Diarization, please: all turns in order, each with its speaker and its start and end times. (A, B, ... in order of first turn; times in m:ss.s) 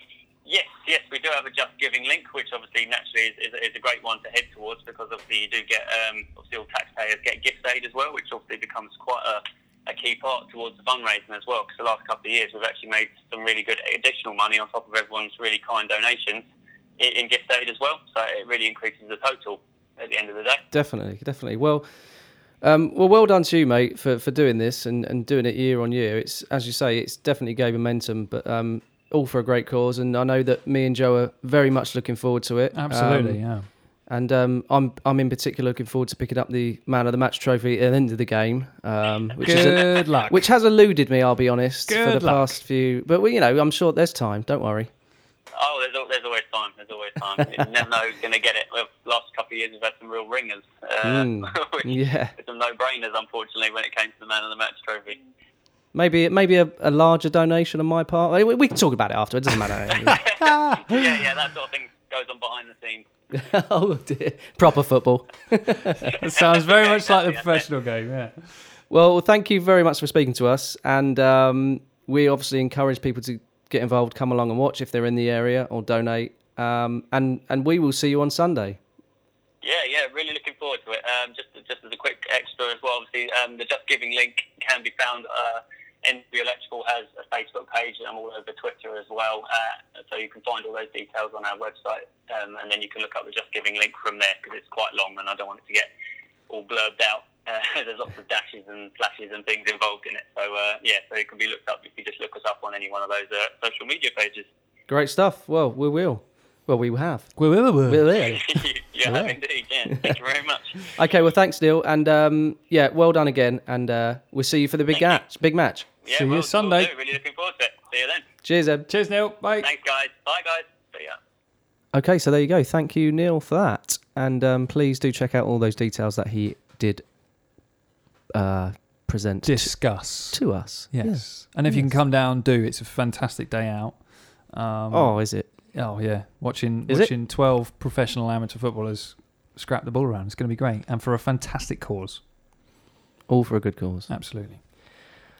0:00.4-0:16.4 A
0:17.0-0:20.6 A
0:20.7-0:21.9 B
0:22.6-0:33.4 B
0:32.7-0:33.7 C
0:34.1-0:44.9 B
0:39.4-0:40.4 C
0:41.8-0:42.6 C
0:45.6-0:55.2 A
0:51.0-0:52.3 B
0:55.9-1:00.4 B
1:00.0-1:03.1 A
1:00.3-1:00.8 C
1:03.3-1:06.1 B
1:06.0-1:08.5 C
1:06.2-1:07.6 A
1:08.9-1:18.8 B
1:19.6-1:35.9 A
1:36.5-1:44.5 A
1:44.9-1:50.1 B
1:47.4-1:48.1 C
1:48.1-1:50.8 A
1:50.8-1:55.9 B
1:54.9-1:55.2 A
1:56.0-1:58.2 A
1:56.1-1:56.9 C
1:58.4-1:58.9 B
1:58.9-1:59.7 C
1:59.6-2:01.2 A
2:01.9-2:07.0 B
2:08.3-2:12.0 B
2:09.4-2:15.2 C
2:14.9-2:15.5 B
2:15.7-2:22.2 C
2:23.3-2:24.1 B
2:24.1-2:24.6 C